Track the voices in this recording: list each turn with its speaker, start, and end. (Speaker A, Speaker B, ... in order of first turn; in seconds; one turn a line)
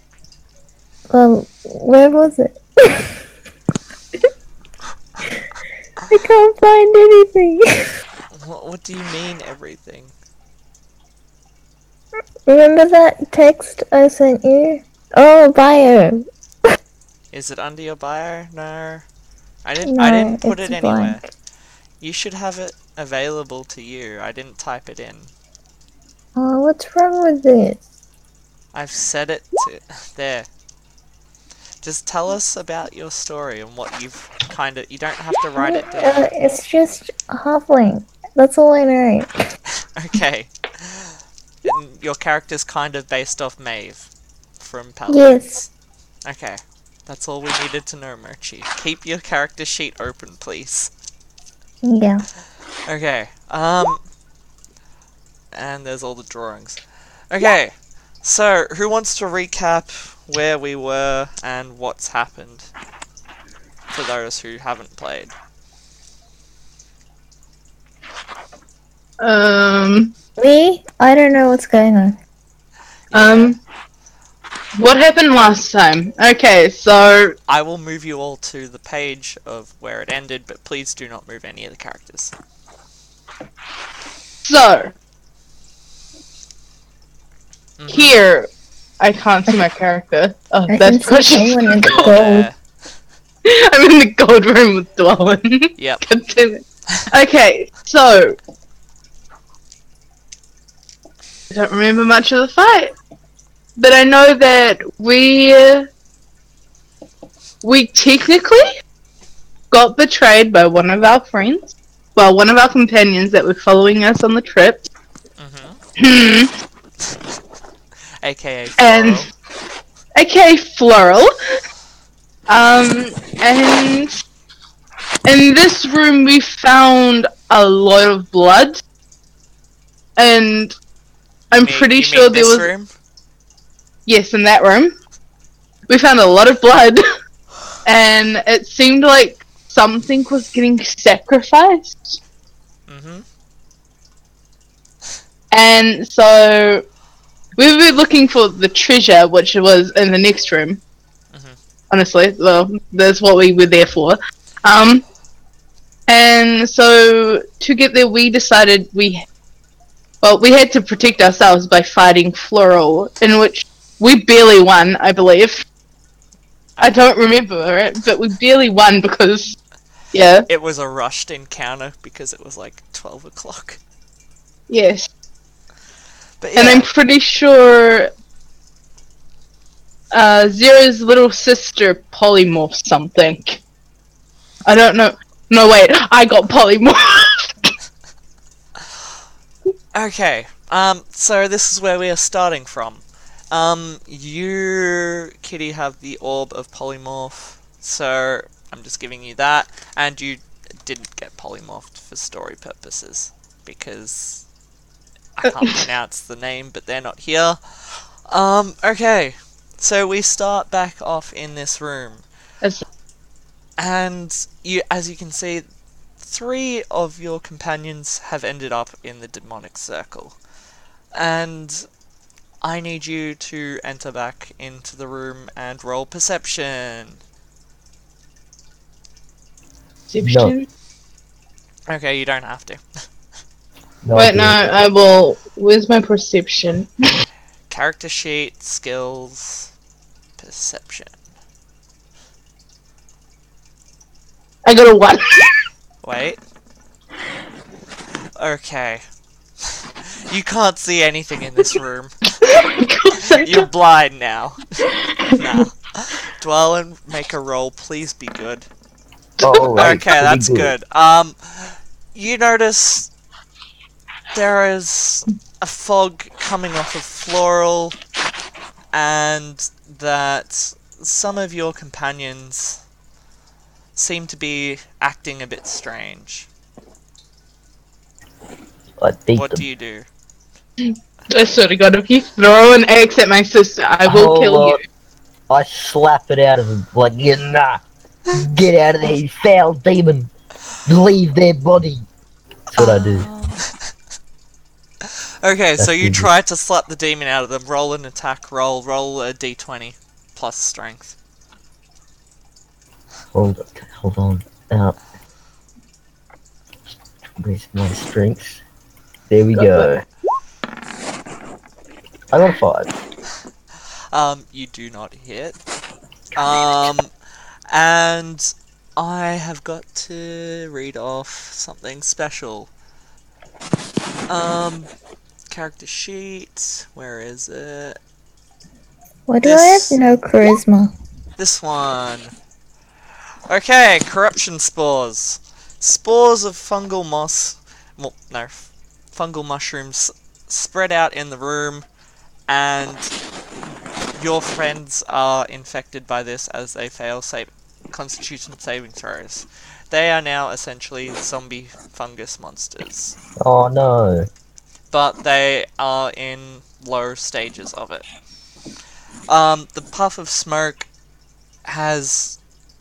Speaker A: 1.1-3.1
Speaker A: 6.1-7.9
Speaker B: 8.3-10.1
Speaker A: 12.4-16.2
Speaker B: 17.3-19.1
Speaker B: 19.6-21.3
Speaker A: 19.8-21.2
Speaker B: 22.0-25.3
Speaker A: 26.4-27.8
Speaker B: 28.7-30.5
Speaker B: 31.8-36.3
Speaker A: 35.6-39.3
Speaker B: 40.0-45.7
Speaker A: 45.1-45.6
Speaker B: 46.2-50.9
Speaker A: 51.8-52.2
Speaker B: 52.9-54.0
Speaker B: 55.5-62.7
Speaker B: 63.9-65.3
Speaker C: 69.2-70.1
Speaker A: 70.4-72.2
Speaker B: 73.1-73.5
Speaker C: 73.1-73.6
Speaker C: 74.8-77.3
Speaker B: 77.5-82.3
Speaker C: 84.4-84.9
Speaker B: 87.8-88.2
Speaker C: 87.9-88.5
Speaker C: 89.0-92.0
Speaker A: 90.7-92.5
Speaker B: 91.8-92.5
Speaker C: 93.4-98.4
Speaker B: 95.8-96.0
Speaker C: 101.5-102.9
Speaker C: 103.8-105.9
Speaker C: 107.6-108.7
Speaker C: 109.7-114.9
Speaker B: 115.4-115.8
Speaker C: 116.0-116.5
Speaker B: 118.2-119.3
Speaker C: 118.8-119.2
Speaker C: 120.2-121.3
Speaker C: 122.5-124.2
Speaker C: 125.2-128.8
Speaker C: 130.2-130.7
Speaker C: 131.5-132.7
Speaker B: 131.6-132.9
Speaker C: 134.1-134.9
Speaker C: 135.9-137.0
Speaker C: 137.8-142.2
Speaker B: 142.9-143.2
Speaker C: 145.5-146.8
Speaker C: 147.6-150.8
Speaker C: 151.9-155.0
Speaker C: 156.1-159.2
Speaker C: 160.2-165.6
Speaker C: 166.8-169.6
Speaker C: 170.1-170.5
Speaker B: 170.5-173.8
Speaker C: 174.7-175.1
Speaker B: 176.4-176.9
Speaker C: 176.6-178.1
Speaker C: 180.1-183.6
Speaker C: 184.7-187.5
Speaker B: 189.9-204.4
Speaker B: 205.4-212.2
Speaker B: 213.8-215.6
Speaker B: 216.2-220.4
Speaker B: 221.1-221.8
Speaker B: 222.6-227.2
Speaker C: 230.1-230.7
Speaker D: 230.2-230.5
Speaker B: 231.9-232.8
Speaker D: 234.0-234.8
Speaker C: 234.2-237.1
Speaker B: 237.7-239.7
Speaker B: 240.4-241.1
Speaker C: 244.7-245.5
Speaker B: 246.0-246.4
Speaker B: 248.4-249.0
Speaker B: 249.6-252.1
Speaker C: 252.4-253.7
Speaker B: 253.3-258.6
Speaker C: 259.4-260.0
Speaker D: 259.4-260.7
Speaker B: 259.8-263.1
Speaker B: 264.3-267.9
Speaker B: 268.9-272.8
Speaker B: 273.9-276.5
Speaker D: 279.0-279.6
Speaker B: 279.3-280.1
Speaker C: 280.8-284.8
Speaker D: 284.1-284.8
Speaker D: 285.5-290.3
Speaker D: 290.9-292.0
Speaker D: 292.7-293.3
Speaker B: 292.7-293.7
Speaker B: 295.0-301.1
Speaker D: 295.8-296.3
Speaker D: 303.3-305.0
Speaker D: 307.4-308.6
Speaker D: 309.3-310.0
Speaker C: 309.6-309.9
Speaker D: 312.3-312.9
Speaker B: 314.1-315.6
Speaker B: 316.3-317.1
Speaker B: 317.7-322.7
Speaker B: 324.3-324.9
Speaker B: 325.5-328.0
Speaker A: 329.3-330.9
Speaker B: 329.4-329.9
Speaker B: 331.4-332.3
Speaker B: 333.5-341.9
Speaker B: 342.5-343.1
Speaker B: 344.1-353.1
Speaker D: 353.4-354.3
Speaker B: 354.9-358.1
Speaker B: 359.3-360.9
Speaker B: 361.6-362.4